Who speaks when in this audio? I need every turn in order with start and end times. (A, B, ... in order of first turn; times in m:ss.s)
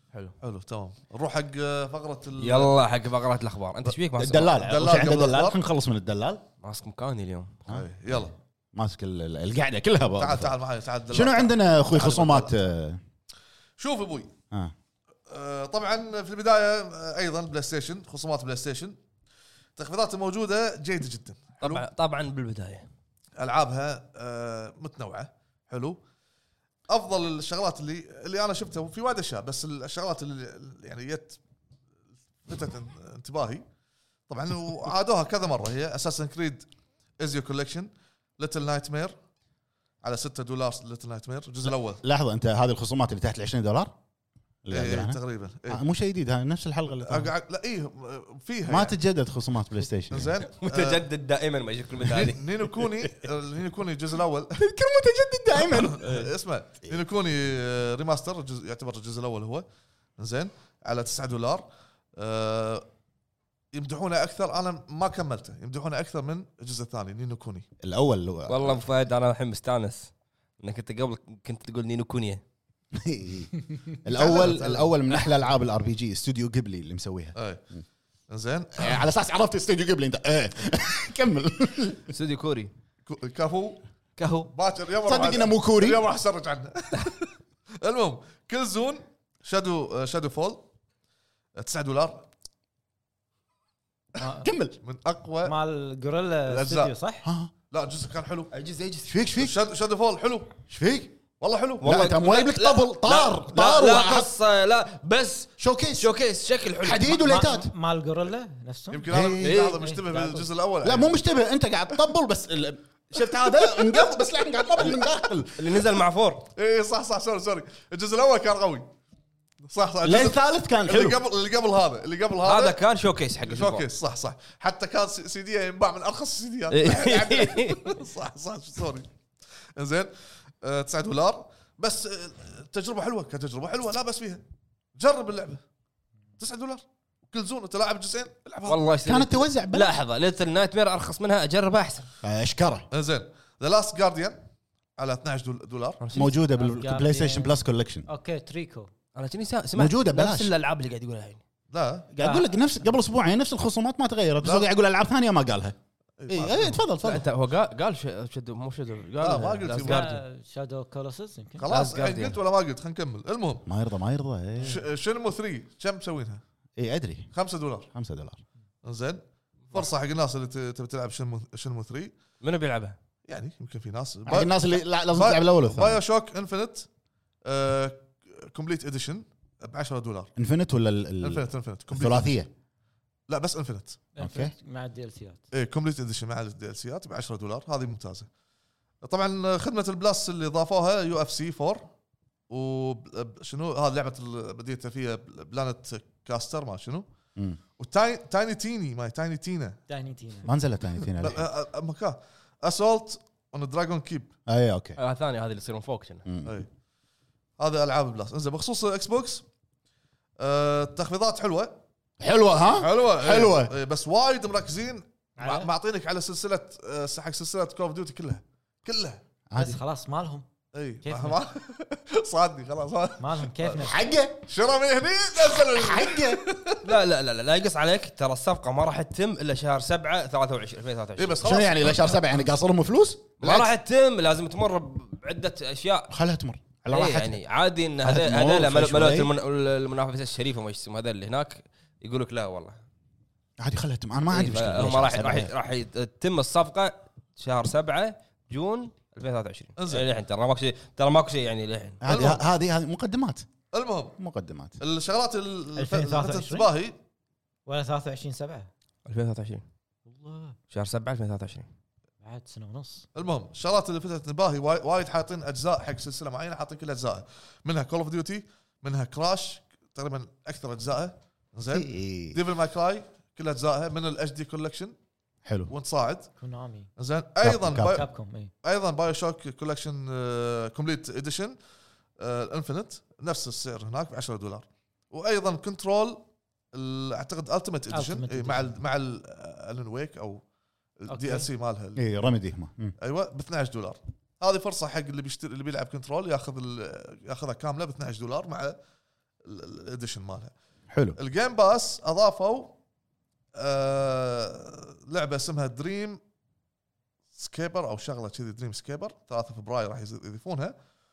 0:00.4-0:02.8 A
0:02.4-0:04.8 B
0:04.2-0:06.4 C
0:04.6-0:05.6 A
0:06.6-0:07.6 B
0:07.7-0:08.4 A
0:08.7-0:10.6 C
0:10.2-0:12.5 A
0:11.1-0:13.0 C
0:13.8-0:14.3 A
0:15.3-0:19.0 A
0:19.8-0:21.8 A
0:21.6-0:22.9 B
0:23.4-0:26.0 A
0:26.9-0:31.4 A
0:32.4-0:33.6 A
0:34.3-0:36.7 A
0:37.2-0:39.1 A
0:40.0-0:42.0 A
0:41.7-0:43.9 C
0:44.6-0:47.3 C
0:44.7-0:45.8 A
0:47.0-0:49.0 A
0:48.7-0:50.4 C
0:50.1-0:51.0 A
0:50.6-0:53.1 B
0:52.0-0:54.6 A
0:54.6-0:56.3 C
0:55.7-0:59.7 A
1:00.2-1:02.8 A
1:03.7-1:07.7 A
1:07.8-1:08.8 C
1:08.5-1:12.4 B
1:12.9-1:17.4 C
1:14.1-1:14.9 A
1:17.4-1:17.6 A
1:18.3-1:19.0 A
1:18.8-1:22.1 C
1:22.1-1:22.7 B
1:23.1-1:23.8 A
1:24.2-1:24.5 B
1:24.5-1:30.6 A
1:25.0-1:26.0 C
1:31.6-1:32.3 A
1:34.2-1:34.5 D
1:34.4-1:34.8 C
1:34.8-1:35.6 A
1:35.4-1:37.3 D
1:36.5-1:36.9 A
1:37.2-1:37.5 C
1:37.7-1:38.5 A
1:38.5-1:39.1 B
1:39.1-1:39.6 C
1:39.4-1:40.6 A
1:40.7-1:41.1 C
1:41.4-1:42.0 A
1:41.8-1:47.5 B
1:41.8-1:44.3 C
1:45.6-1:46.1 C
1:46.8-1:47.7 C
1:47.2-1:50.5 D
1:48.9-1:51.2 A
1:49.1-1:49.6 C
1:49.4-1:49.8 B
1:50.8-1:55.8 C
1:55.6-1:56.5 B
1:56.6-1:58.9 A
1:59.7-2:02.8 A
2:00.0-2:01.2 C
2:02.4-2:03.9 B
2:03.5-2:09.1 A
2:06.7-2:08.0 B
2:09.8-2:14.4 A
2:15.0-2:15.6 A
2:16.4-2:18.8 A
2:18.7-2:22.1 B
2:19.0-2:20.0 C
2:22.2-2:22.9 C
2:22.9-2:24.4 A
2:25.0-2:26.0 A
2:26.0-2:26.3 B
2:26.1-2:28.1 C
2:26.5-2:28.9 D
2:29.2-2:31.4 B
2:29.8-2:30.5 C
2:31.7-2:32.1 A
2:32.1-2:35.8 C
2:32.2-2:32.5 D
2:34.4-2:34.7 A
2:36.2-2:36.8 A
2:36.3-2:37.3 C
2:37.0-2:40.2 B
2:39.2-2:40.0 A
2:39.8-2:41.7 D
2:41.6-2:43.7 A
2:41.7-2:42.4 B
2:43.7-2:44.8 C
2:44.6-2:46.4 A
2:46.8-2:47.3 C
2:47.3-2:47.9 A
2:47.9-2:48.4 C
2:48.8-2:52.1 A
2:52.4-2:53.0 B
2:53.3-2:56.9 A
2:54.3-2:56.0 C
2:57.4-3:00.3 A
3:00.4-3:02.5 C
3:01.2-3:02.3 A
3:03.3-3:04.0 A
3:04.2-3:05.4 D
3:04.2-3:04.5 C
3:05.5-3:08.3 A
3:09.0-3:11.9 A
3:12.5-3:17.1 A
3:17.8-3:19.8 A
3:19.9-3:20.5 D
3:20.4-3:21.4 C
3:21.2-3:24.3 A
3:24.5-3:25.0 C
3:25.0-3:26.2 B
3:26.3-3:26.6 C
3:27.6-3:29.4 A
3:30.4-3:31.8 A
3:32.2-3:33.7 C
3:32.7-3:39.2 A
3:35.4-3:35.7 D
3:39.5-3:39.8 C
3:39.6-3:40.5 D
3:40.7-3:43.8 A
3:41.0-3:41.4 D
3:43.2-3:44.0 D
3:43.8-3:44.4 C
3:44.5-3:46.9 A
3:45.4-3:46.4 C
3:46.8-3:51.6 B
3:51.2-3:52.2 A
3:51.4-3:53.7 C
3:53.4-3:56.1 B
3:56.1-3:57.4 C
3:56.9-4:02.8 B
3:58.0-3:59.3 C
4:03.6-4:05.5 C
4:04.3-4:12.0 B
4:09.8-4:10.0 A
4:12.0-4:13.4 C
4:12.1-4:12.4 A
4:13.7-4:14.2 A
4:14.2-4:14.8 C
4:14.8-4:17.0 A
4:15.8-4:16.7 D
4:17.7-4:18.7 D
4:19.1-4:19.6 B
4:20.1-4:20.6 D
4:20.7-4:21.7 B
4:22.2-4:23.1 D
4:23.2-4:35.0 A
4:31.7-4:32.4 C
4:35.4-4:35.7 C
4:35.7-4:36.3 A
4:36.4-4:36.9 D
4:37.0-4:41.6 A
4:37.4-4:38.0 C
4:37.8-4:38.5 D
4:42.2-4:50.4 A
4:47.9-4:48.7 D
4:51.0-4:52.0 A
4:51.1-4:51.5 D
4:52.0-4:53.0 C
4:53.0-4:58.8 A
4:59.4-5:00.5 A
5:00.9-5:01.2 C
5:01.2-5:02.8 A
5:03.6-5:06.2 A
5:07.4-5:10.8 A